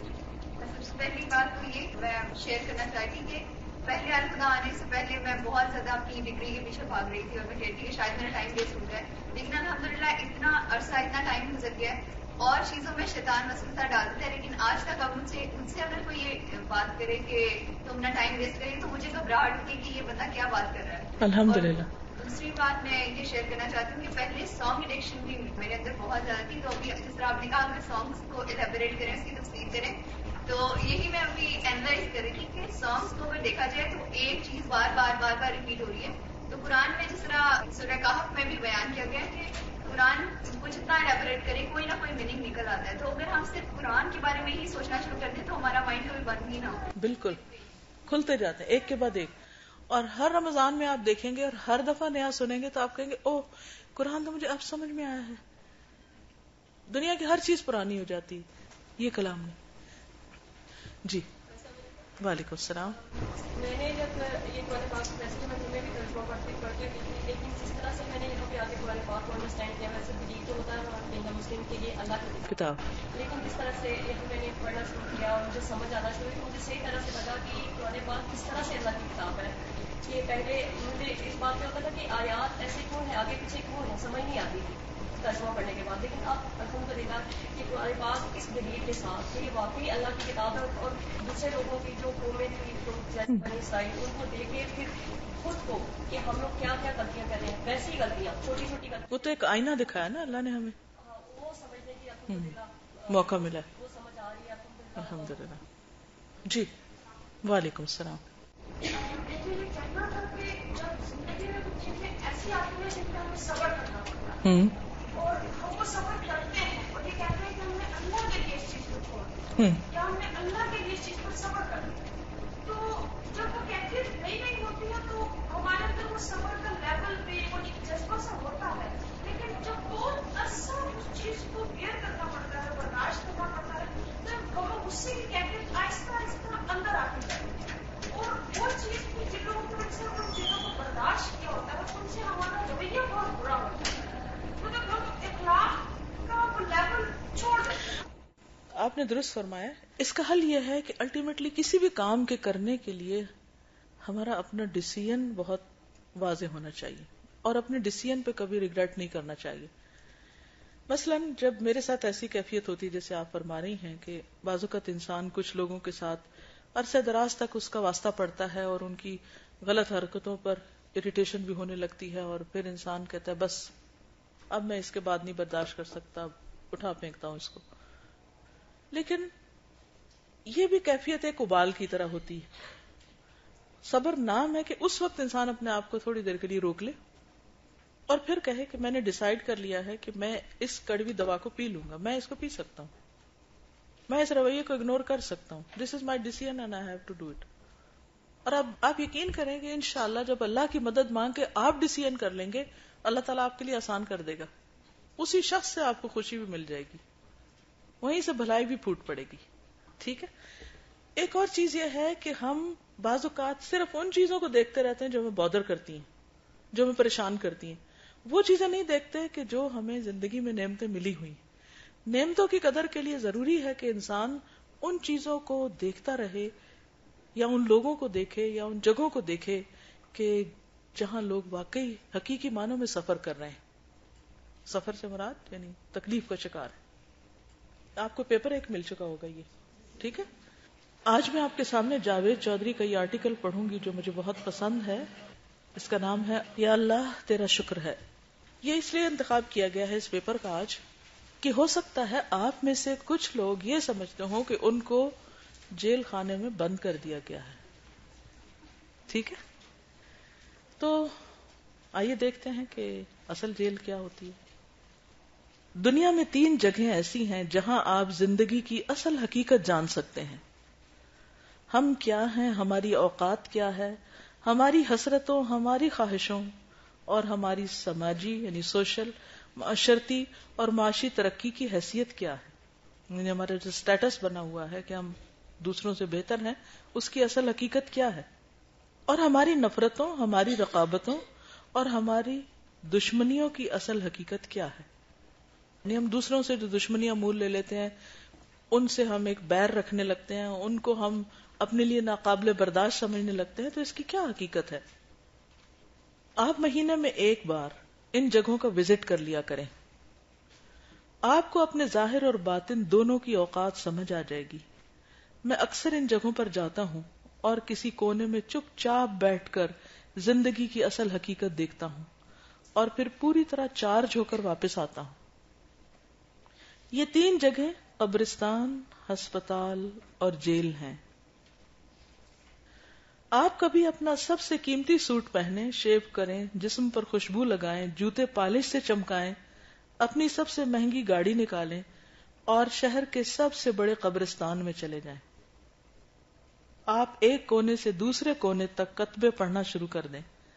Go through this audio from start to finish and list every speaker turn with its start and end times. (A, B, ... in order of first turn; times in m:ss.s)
0:00.6-0:46.9 A
0:21.2-0:21.9 B
0:47.0-0:47.4 B
0:48.1-0:49.3 B
0:49.9-0:55.4 B
0:56.9-0:58.5 B
0:59.0-0:59.6 B
1:02.2-1:03.0 B
1:03.5-1:12.5 C
1:12.5-1:12.8 B
1:13.1-1:39.4 C
1:39.1-1:40.8 B
1:41.0-1:45.4 C
1:42.3-1:42.6 B
1:43.1-1:43.7 B
1:45.0-1:45.6 B
1:46.4-1:46.7 B
1:47.4-1:48.2 B
1:48.9-1:54.4 D
1:54.4-1:54.8 B
1:55.1-2:02.1 D
1:59.6-1:59.8 B
2:02.6-2:24.0 D
2:24.6-2:28.0 D
2:28.8-2:33.3 B
2:34.0-2:35.6 B
2:36.2-2:39.7 B
2:40.9-2:53.7 B
2:54.5-2:57.6 B
2:58.9-2:59.3 B
3:00.5-3:02.5 B
3:03.8-3:07.0 B
3:08.1-3:12.9 B
3:14.1-3:17.5 B
3:18.5-3:24.5 B
3:25.2-3:27.0 B
3:28.0-3:29.4 B
3:30.0-3:30.3 B
3:31.2-3:36.1 B
3:36.7-3:41.4 B
3:42.1-3:46.5 B
3:47.4-3:53.6 B
3:54.7-3:56.8 B
3:58.0-3:59.5 B
4:00.0-4:00.3 B
4:01.1-4:05.1 B
4:05.8-4:08.0 B
4:08.6-4:10.8 B
4:11.4-4:15.2 B
4:15.7-4:17.6 B
4:19.1-4:19.4 B
4:20.8-4:21.2 B
4:21.9-4:24.4 B
4:25.8-4:30.4 B
4:31.7-4:36.5 B
4:37.1-4:42.5 B
4:43.1-4:48.3 B
4:49.1-4:54.9 B
4:55.8-4:58.0 B
4:58.7-5:04.8 B
5:06.4-5:09.7 B
5:11.2-5:14.6 B
5:15.5-5:22.1 B
5:22.8-5:25.2 B
5:26.9-5:31.0 B
5:33.3-5:39.4 B
5:40.0-5:41.9 B
5:42.5-5:45.2 B
5:46.9-5:50.3 B